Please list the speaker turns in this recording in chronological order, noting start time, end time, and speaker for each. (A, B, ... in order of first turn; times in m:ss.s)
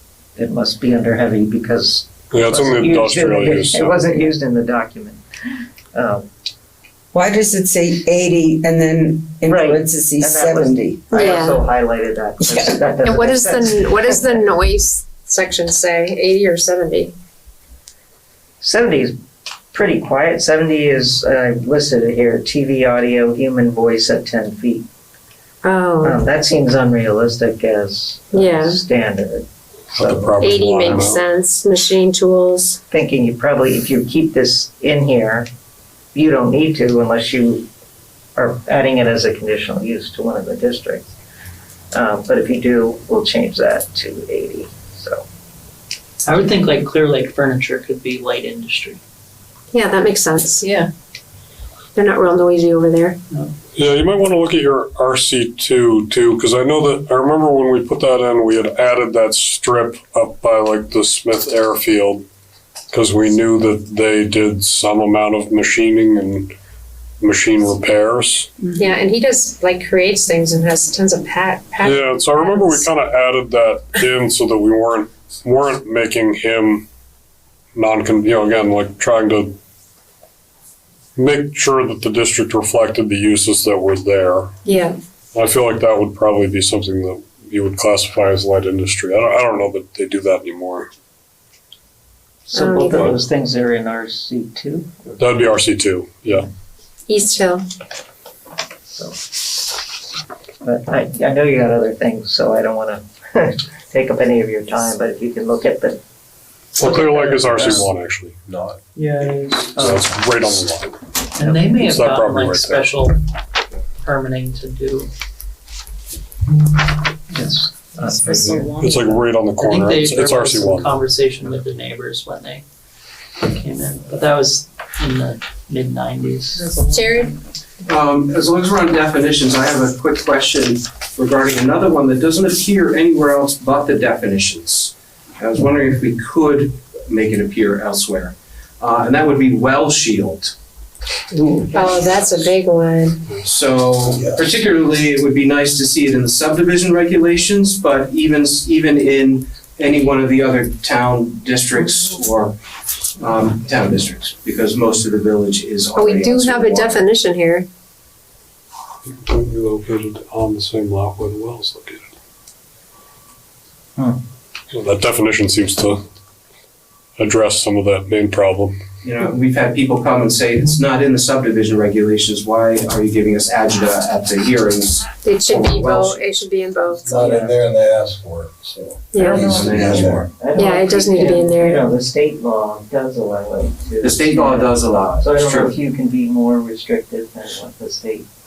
0:00.4-0:05.2 A
0:02.3-0:04.1 B
0:05.9-0:06.3 A
0:07.1-0:11.3 C
0:09.4-0:14.3 A
0:11.1-0:11.6 D
0:12.5-0:12.8 C
0:13.0-0:17.1 D
0:18.6-0:19.2 A
0:19.7-0:24.9 A
0:25.6-0:26.2 D
0:26.0-0:31.0 A
0:28.3-0:28.8 D
0:29.9-0:31.2 B
0:30.4-0:32.8 D
0:32.9-0:35.5 A
0:36.1-0:37.7 A
0:38.4-0:41.1 A
0:41.9-0:45.2 A
0:46.2-0:49.0 E
0:49.7-0:50.7 D
0:52.0-0:53.2 D
0:53.8-1:02.2 B
1:02.9-1:06.5 B
1:07.2-1:08.5 B
1:08.8-1:12.9 D
1:11.8-1:16.9 B
1:17.8-1:19.6 B
1:21.2-1:24.6 B
1:24.6-1:25.0 D
1:25.3-1:30.9 B
1:32.5-1:33.2 D
1:32.5-1:35.2 A
1:35.2-1:36.5 B
1:37.1-1:37.6 D
1:38.9-1:39.2 A
1:40.6-1:46.0 A
1:46.8-1:48.4 B
1:46.8-1:47.9 E
1:48.5-1:48.8 F
1:49.0-1:49.7 E
1:49.7-1:51.0 B
1:49.8-1:50.1 A
1:51.4-1:53.2 E
1:51.5-1:52.9 B
1:54.0-1:55.1 E
1:57.3-1:58.8 A
1:58.2-2:02.6 E
1:58.8-2:01.0 B
2:03.4-2:06.8 E
2:06.9-2:07.3 D
2:07.8-2:20.6 G
2:21.7-2:23.2 D
2:22.0-2:22.4 G
2:23.3-2:32.6 G
2:24.1-2:24.6 F
2:33.2-2:37.1 G
2:36.0-2:37.7 D
2:39.1-2:42.1 B
2:44.7-2:46.0 B
2:47.2-2:48.8 B
2:49.0-2:56.2 G
2:55.2-2:57.6 D
2:56.9-3:00.3 F
2:57.1-2:57.5 A
2:59.1-2:59.7 D
2:59.2-3:08.3 A
2:59.4-3:00.3 G
3:00.6-3:01.8 D
3:04.0-3:05.8 G